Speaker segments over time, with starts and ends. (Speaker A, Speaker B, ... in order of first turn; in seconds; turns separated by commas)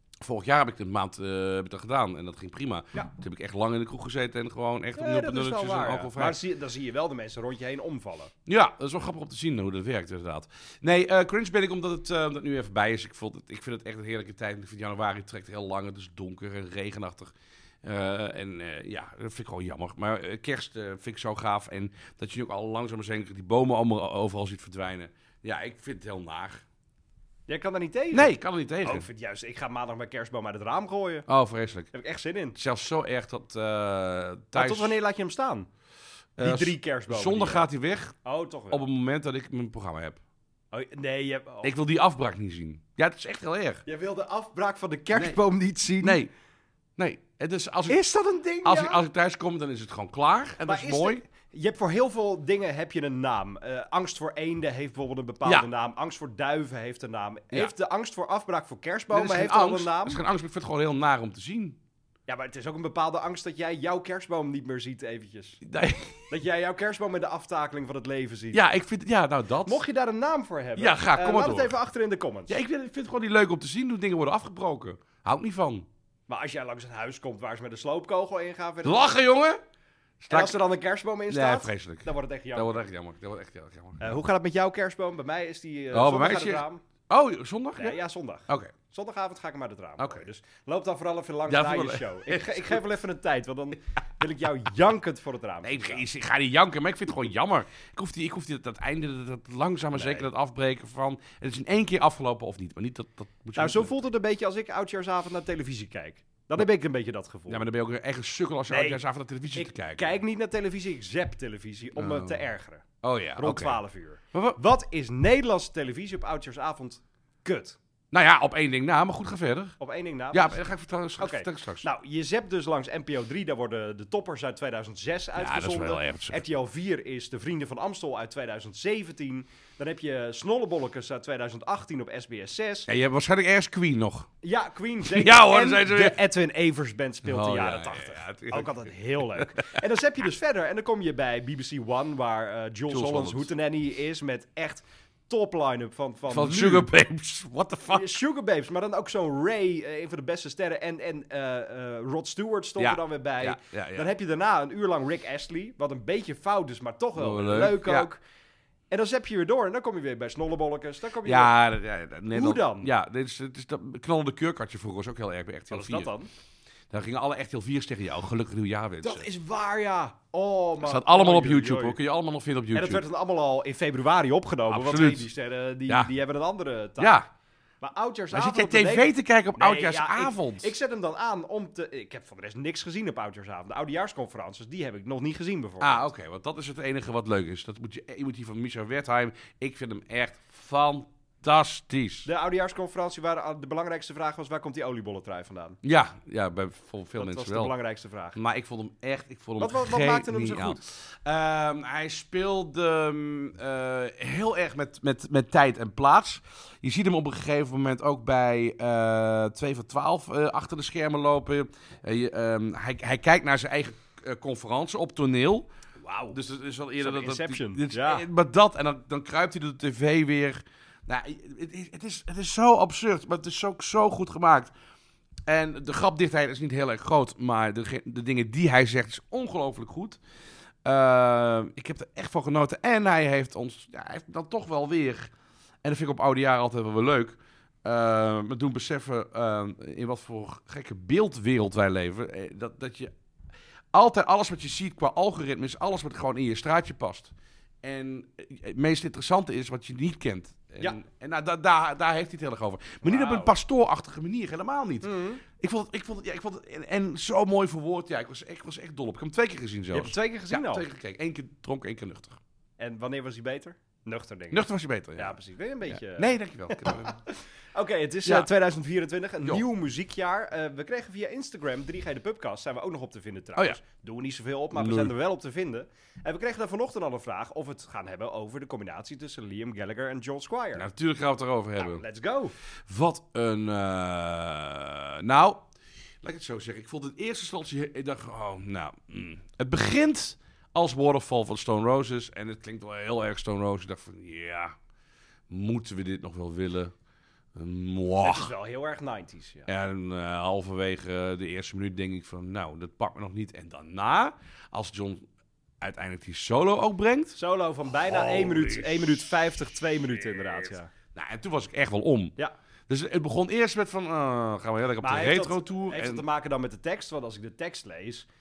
Speaker A: 0.2-6.4, Speaker B: 5.0-8.3, Speaker A: 8.5-26.6, Speaker B: 27.5-31.3, Speaker A: 28.1-29.1, Speaker A: 31.3-31.9, Speaker B: 31.9-32.6, Speaker A: 32.6-35.0, Speaker B: 34.5-35.7, Speaker A: 36.4-38.1, Speaker B: 36.4-37.7, Speaker B: 38.2-38.9, Speaker A: 38.7-40.2, Speaker B: 40.7-41.7, Speaker A: 41.6-43.8, Speaker B: 43.9-46.2, Speaker A: 46.0-46.3, Speaker A: 47.0-48.0, Speaker B: 47.9-49.0, Speaker A: 48.6-51.2, Speaker B: 50.6-60.2, Speaker A: 59.1-61.8, Speaker B: 62.3-65.6, Speaker A: 65.6-66.3, Speaker B: 66.3-68.6, Speaker A: 68.5-69.8, Speaker B: 69.7-72.6, Speaker A: 70.8-71.8, Speaker A: 72.5-75.9, Speaker B: 76.3-79.1, Speaker A: 78.8-79.6, Speaker A: 80.2-80.6, Speaker B: 80.3-82.8, Speaker A: 81.3-84.2, Speaker B: 84.0-86.8, Speaker A: 85.9-88.7, Speaker B: 87.8-96.0, Speaker A: 90.0-90.2, Speaker A: 91.5-92.8, Speaker A: 95.6-103.9, Speaker B: 99.9-100.3, Speaker B: 103.6-107.7, Speaker A: 107.5-110.2, Speaker B: 108.7-109.0, Speaker B: 109.5-112.8, Speaker A: 112.0-112.4, Speaker A: 113.0-114.6, Speaker B: 113.4-117.8, Speaker A: 118.1-119.8, Speaker B: 119.8-120.6, Speaker A: 120.3-121.9, Speaker B: 121.2-132.9, Speaker A: 125.4-126.4, Speaker A: 132.9-134.3, Speaker B: 134.4-146.9, Speaker A: 135.1-136.2, Speaker A: 137.2-139.8, Speaker A: 142.9-143.5, Speaker A: 146.3-148.2, Speaker B: 147.9-158.2, Speaker A: 152.8-154.1, Speaker A: 157.2-158.1, Speaker B: 158.9-161.6, Speaker A: 161.2-166.1, Speaker B: 162.3-162.9, Speaker B: 165.7-166.3, Speaker A: 166.9-169.3, Speaker B: 169.0-172.0, Speaker A: 170.8-173.0, Speaker B: 172.7-177.2, Speaker A: 174.7-175.3, Speaker A: 177.0-177.3, Speaker B: 177.8-186.1, Speaker A: 178.3-180.7, Speaker A: 185.8-192.3, Speaker B: 192.2-195.8, Speaker A: 195.8-197.7, Speaker B: 197.2-198.4, Speaker A: 198.3-215.7, Speaker B: 199.6-200.8, Speaker B: 216.0-216.4, Speaker A: 216.3-224.7, Speaker B: 217.0-218.2, Speaker A: 225.5-230.2, Speaker A: 230.8-243.1, Speaker A: 243.9-262.4, Speaker B: 253.0-253.6, Speaker B: 255.0-255.4, Speaker B: 259.9-260.9, Speaker B: 262.8-280.9, Speaker A: 264.5-265.4, Speaker A: 265.9-267.2, Speaker A: 274.7-275.1, Speaker A: 280.8-282.0, Speaker B: 281.8-282.6, Speaker A: 282.9-285.7, Speaker A: 286.2-294.8, Speaker A: 295.5-296.9, Speaker A: 297.6-298.5, Speaker B: 298.2-299.7, Speaker A: 299.7-305.3, Speaker A: 305.8-307.4, Speaker B: 307.4-310.9, Speaker A: 308.1-309.3, Speaker A: 311.1-312.4, Speaker A: 312.9-316.2, Speaker B: 315.0-318.3